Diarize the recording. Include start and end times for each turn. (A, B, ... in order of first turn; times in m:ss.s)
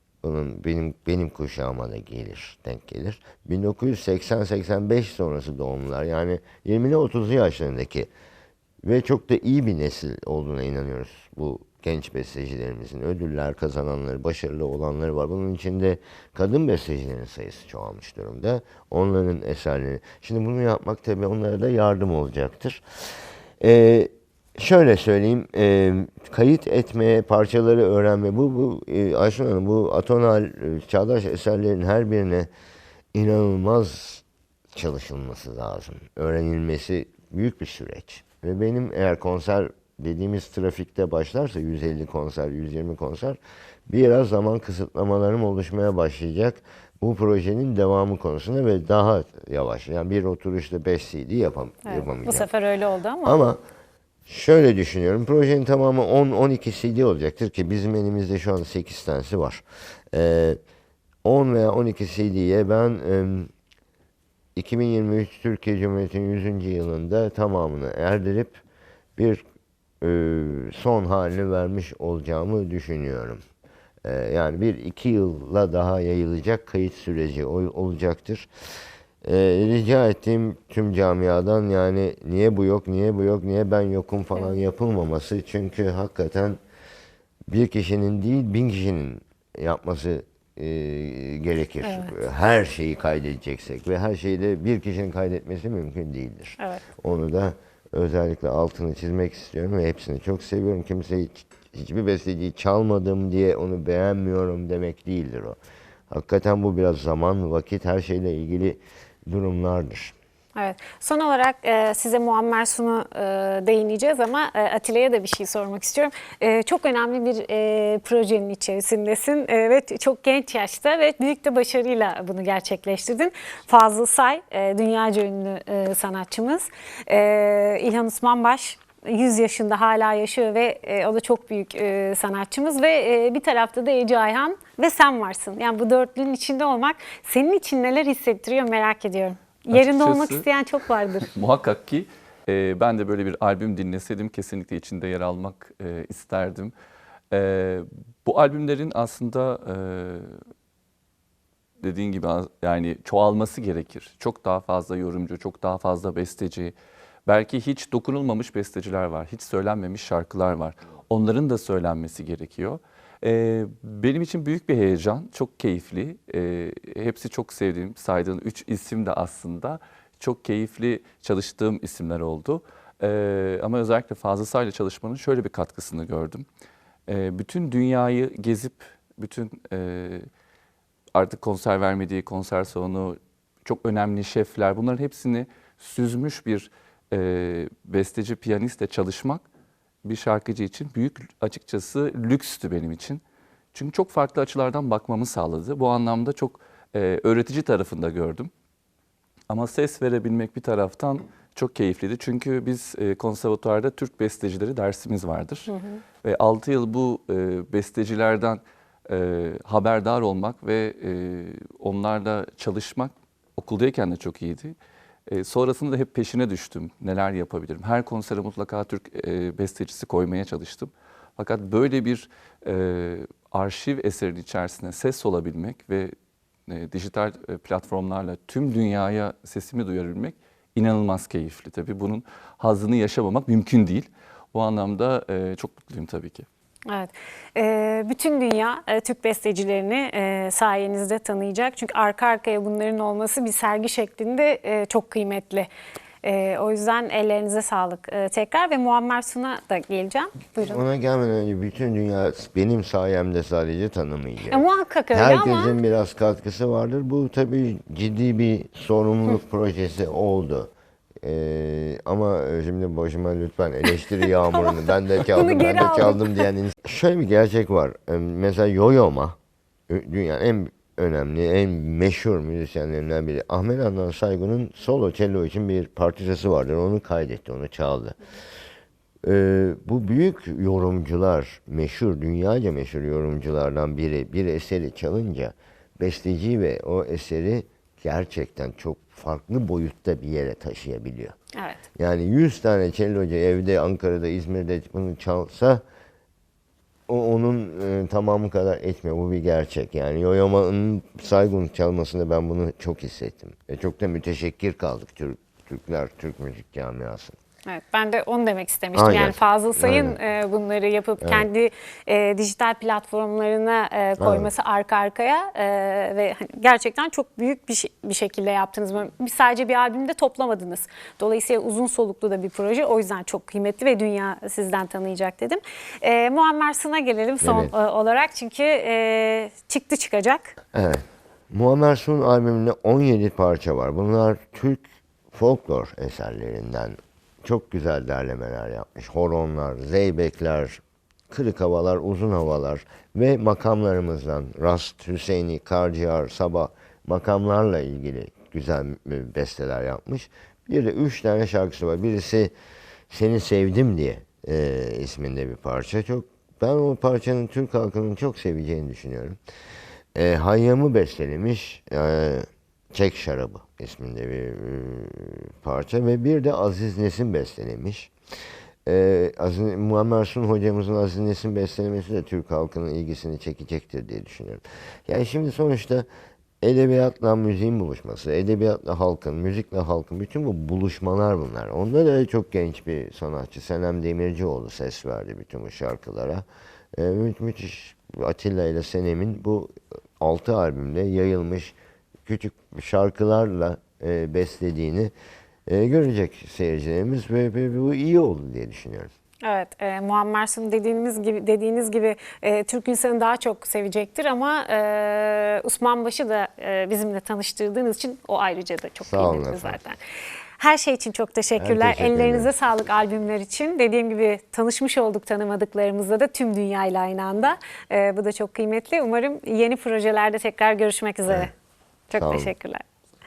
0:00.2-0:08.1 A
0:08.8-0:22.8 A
0:23.6-0:32.5 A
0:33.1-0:52.5 A
0:51.9-0:53.4 B
0:53.2-0:53.6 A
0:54.3-1:00.6 A
1:01.2-1:03.5 A
1:04.6-1:08.6 A
1:09.2-1:09.4 A
1:10.0-1:13.4 A
1:14.0-1:18.5 A
1:19.2-1:26.6 A
1:27.5-1:45.6 A
1:31.8-1:32.1 B
1:46.1-1:50.1 A
1:50.6-2:21.3 B
2:19.7-2:20.5 C
2:21.2-2:26.7 C
2:27.3-2:30.4 C
2:31.8-2:36.8 C
2:37.3-2:56.4 C
2:57.1-3:00.3 C
3:01.1-3:09.4 C
3:10.0-3:13.2 C
3:13.7-3:18.5 C
3:19.5-3:25.7 C
3:25.7-3:26.0 B
3:26.2-3:34.8 C
3:35.3-3:46.1 C
3:46.7-3:56.5 C
3:56.9-4:05.7 B
4:06.2-4:10.8 B
4:10.6-4:20.7 A
4:14.5-4:15.8 B
4:21.2-4:29.4 A
4:24.5-4:26.5 B
4:29.9-4:38.2 A
4:39.2-4:51.4 A
4:51.6-4:51.8 B
4:52.0-4:55.8 A
4:57.1-5:07.4 A
5:07.7-5:30.6 B
5:09.0-5:10.2 A
5:11.2-5:11.5 A
5:14.2-5:14.5 A
5:27.4-5:27.7 A
5:30.7-5:52.5 A
5:53.1-5:59.4 A
6:00.1-6:08.1 A
6:08.9-6:16.1 A
6:16.6-6:31.8 A
6:32.3-6:35.1 A
6:35.7-6:39.1 A
6:39.4-6:50.0 B
6:49.0-6:49.8 A
6:50.6-7:01.5 B
6:51.6-6:52.5 A
7:02.1-7:02.8 B
7:02.2-7:02.5 A